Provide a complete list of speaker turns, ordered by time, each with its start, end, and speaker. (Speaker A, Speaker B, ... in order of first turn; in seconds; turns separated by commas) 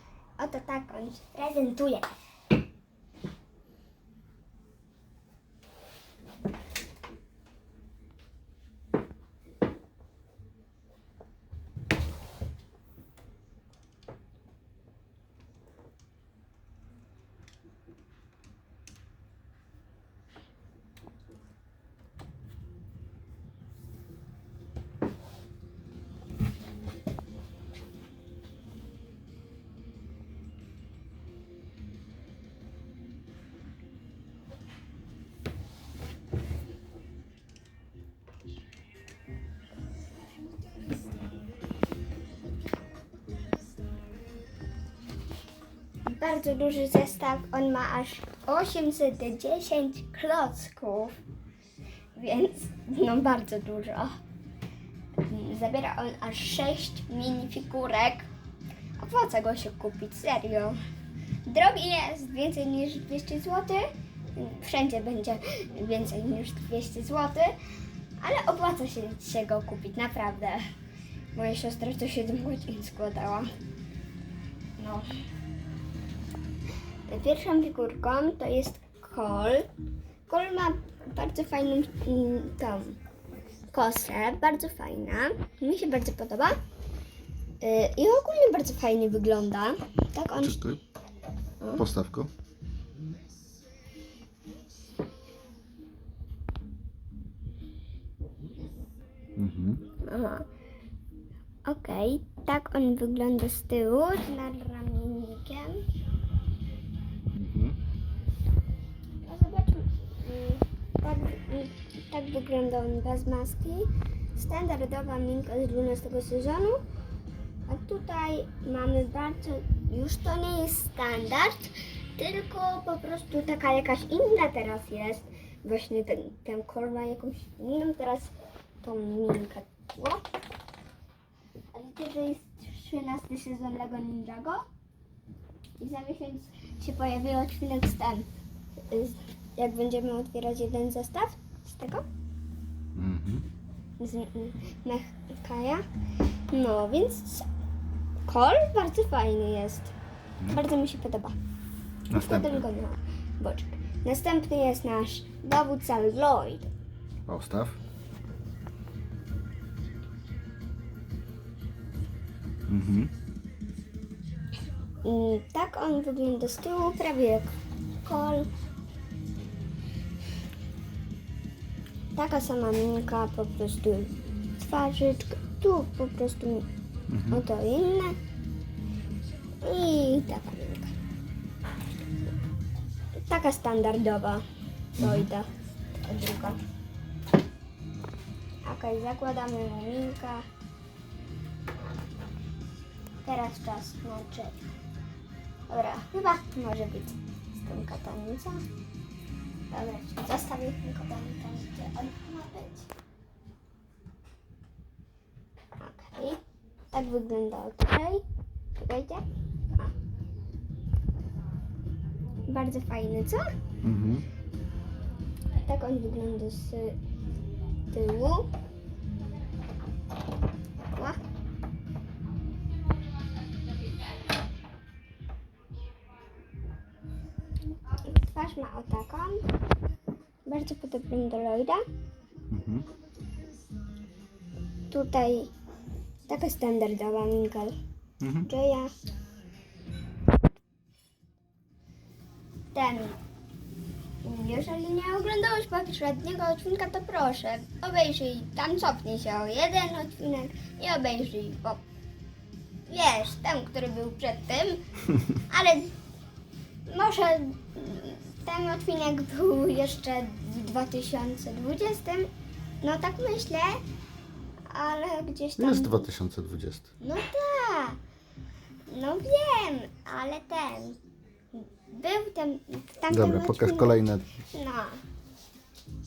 Speaker A: 0.4-2.1, Speaker A: 46.0-51.2, Speaker A: 52.1-54.1, Speaker A: 55.2-58.3, Speaker A: 59.0-60.8, Speaker A: 61.5-67.6, Speaker A: 68.2-70.6, Speaker A: 71.3-73.5, Speaker A: 74.8-75.1, Speaker A: 77.1-79.7, Speaker A: 80.3-83.0, Speaker A: 83.7-86.6, Speaker A: 87.6-90.7, Speaker B: 90.4-90.8, Speaker A: 91.6-91.8, Speaker B: 91.8-92.3, Speaker B: 99.4-99.9, Speaker A: 100.0-100.5, Speaker A: 101.7-105.8, Speaker B: 107.3-107.8, Speaker A: 109.2-116.8, Speaker A: 117.7-130.2, Speaker A: 131.7-134.7, Speaker A: 135.8-138.3, Speaker A: 138.9-142.0, Speaker B: 142.9-143.4, Speaker A: 144.0-145.8, Speaker A: 146.5-147.5, Speaker A: 148.3-149.9, Speaker A: 150.5-151.4, Speaker B: 152.1-152.7, Speaker A: 152.1-156.7, Speaker B: 157.3-157.8, Speaker B: 162.7-163.1, Speaker A: 165.0-168.5, Speaker A: 172.2-176.7, Speaker B: 177.1-177.4, Speaker A: 177.3-178.2, Speaker A: 179.6-180.9, Speaker A: 183.2-184.4, Speaker A: 185.0-185.5, Speaker B: 185.0-185.3, Speaker A: 186.0-186.6, Speaker A: 188.7-190.4, Speaker A: 193.2-194.7, Speaker A: 195.7-198.7, Speaker A: 199.7-202.9, Speaker A: 205.8-206.4, Speaker A: 206.9-208.2, Speaker A: 208.8-209.9, Speaker A: 212.5-213.5, Speaker B: 213.8-214.2, Speaker A: 215.6-217.0, Speaker A: 217.9-218.5, Speaker A: 220.9-221.2, Speaker A: 227.9-229.4, Speaker A: 230.5-231.8, Speaker B: 232.5-232.9, Speaker A: 234.9-235.5, Speaker A: 236.3-237.8, Speaker B: 238.2-238.5, Speaker A: 238.4-238.9, Speaker A: 242.7-243.2, Speaker A: 244.2-251.8, Speaker A: 252.9-254.8, Speaker A: 255.3-255.9, Speaker A: 256.9-262.3, Speaker A: 262.8-263.8, Speaker A: 264.7-266.1, Speaker B: 265.6-266.9, Speaker A: 267.0-268.0, Speaker A: 268.9-271.0, Speaker A: 271.5-275.0, Speaker B: 273.1-274.3